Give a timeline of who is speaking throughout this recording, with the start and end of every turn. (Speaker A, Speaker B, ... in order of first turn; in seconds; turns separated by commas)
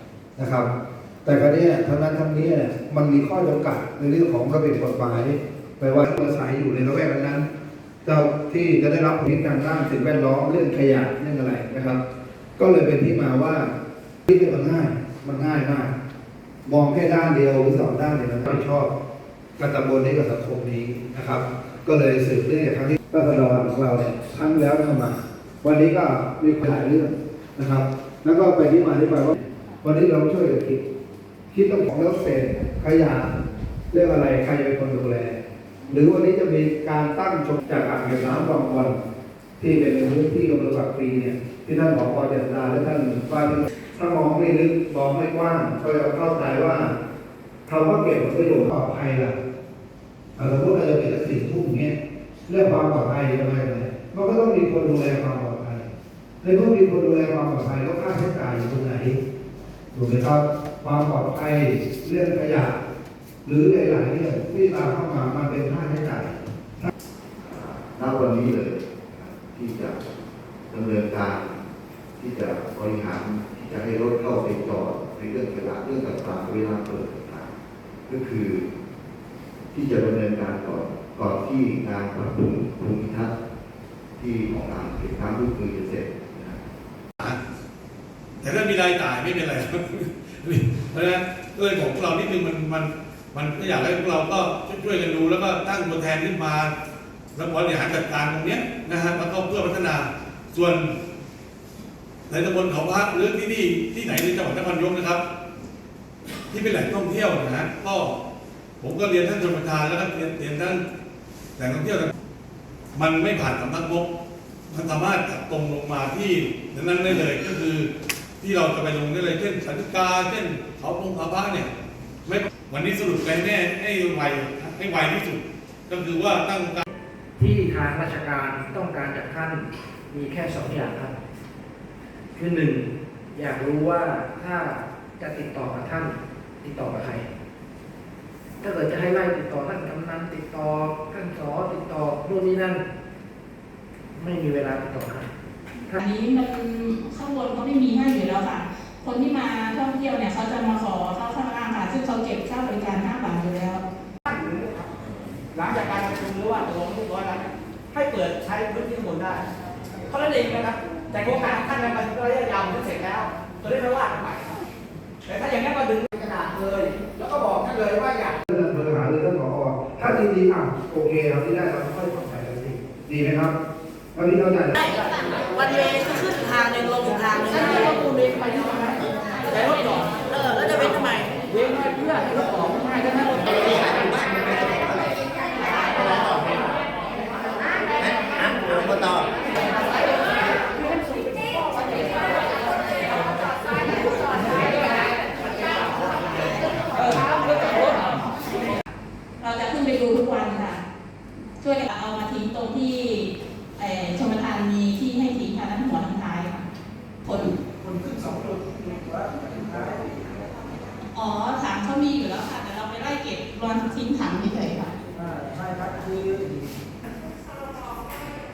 Speaker A: 0.4-0.7, Speaker A: 1.2-7.5, Speaker A: 8.1-12.0, Speaker A: 12.6-13.7, Speaker A: 14.3-15.9, Speaker A: 16.7-18.9, Speaker A: 19.6-30.8, Speaker A: 31.5-33.3, Speaker A: 33.9-35.4, Speaker A: 35.9-39.0, Speaker A: 39.6-46.9, Speaker A: 47.7-49.4, Speaker A: 50.4-52.0, Speaker A: 52.5-55.9, Speaker A: 56.4-59.2, Speaker A: 59.9-62.8, Speaker A: 63.5-66.9, Speaker B: 67.4-70.1, Speaker B: 70.7-71.6, Speaker B: 72.2-77.5, Speaker B: 78.1-78.7, Speaker B: 79.7-83.4, Speaker B: 84.2-86.7, Speaker C: 88.4-96.7, Speaker C: 97.3-100.9, Speaker C: 102.3-105.2, Speaker C: 106.5-108.2, Speaker C: 108.8-110.8, Speaker C: 111.6-112.1, Speaker C: 113.0-114.1, Speaker C: 114.7-117.9, Speaker C: 118.4-121.7, Speaker C: 122.3-126.8, Speaker D: 127.4-131.1, Speaker D: 132.4-137.2, Speaker D: 138.6-142.8, Speaker D: 144.2-145.3, Speaker E: 146.0-153.8, Speaker F: 154.3-154.9, Speaker F: 155.5-159.5, Speaker F: 160.1-164.6, Speaker F: 165.2-168.4, Speaker A: 168.5-173.6, Speaker A: 174.2-174.8, Speaker G: 175.5-178.1, Speaker F: 177.6-180.4, Speaker G: 180.4-181.3, Speaker F: 181.4-183.7, Speaker F: 191.3-192.1, Speaker F: 196.9-198.2, Speaker E: 199.4-200.8, Speaker E: 201.6-206.7, Speaker E: 207.2-207.6, Speaker F: 207.8-210.2, Speaker E: 211.1-214.9, Speaker F: 215.1-216.6